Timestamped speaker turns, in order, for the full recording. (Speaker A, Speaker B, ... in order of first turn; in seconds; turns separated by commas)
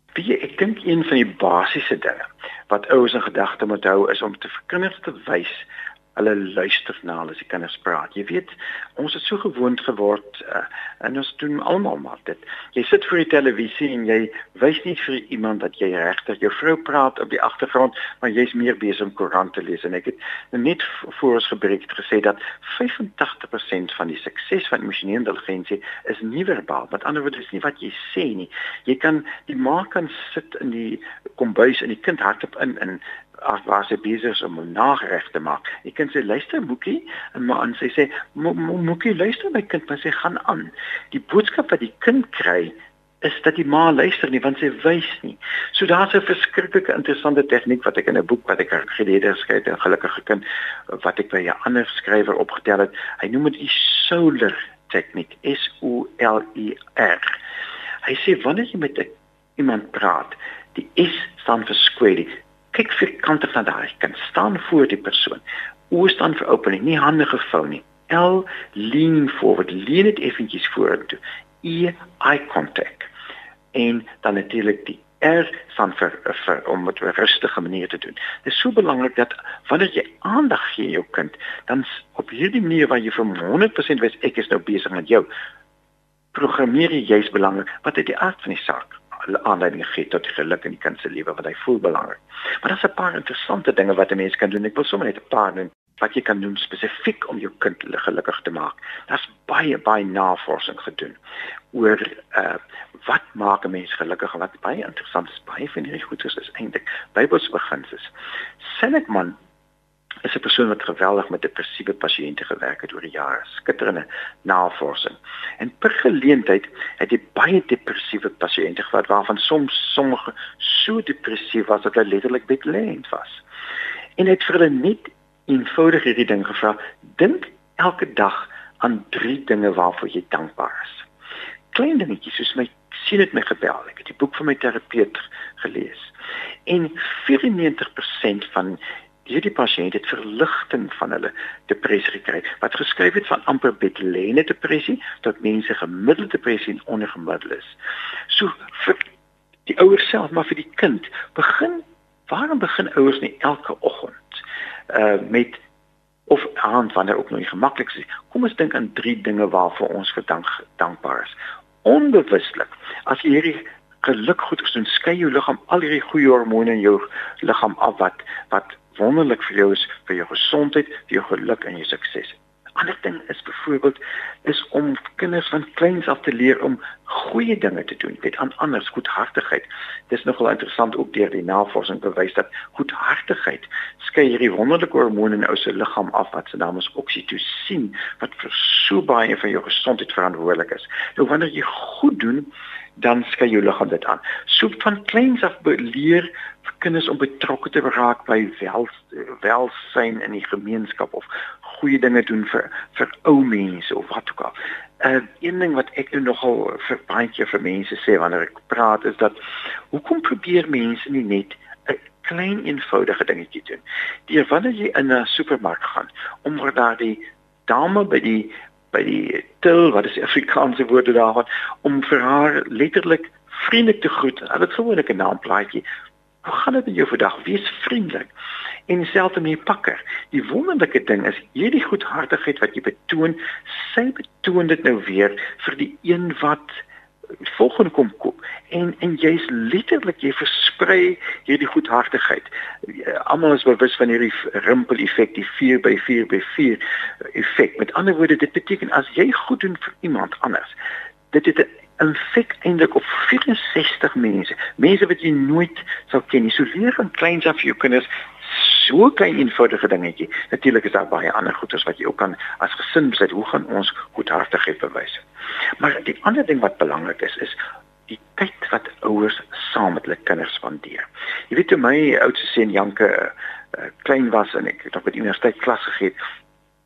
Speaker A: 0.1-57.4, Speaker A: 58.0-73.1, Speaker A: 73.7-85.3, Speaker A: 86.3-101.2, Speaker A: 101.7-109.4, Speaker A: 110.2-123.4, Speaker A: 124.2-131.1, Speaker A: 131.7-136.1, Speaker A: 136.7-147.8, Speaker A: 148.3-149.0, Speaker A: 149.7-155.6, Speaker A: 156.3-209.3, Speaker A: 209.9-225.8, Speaker A: 226.4-228.3, Speaker A: 228.9-236.8, Speaker A: 237.4-250.7, Speaker A: 251.3-265.2, Speaker A: 265.8-276.1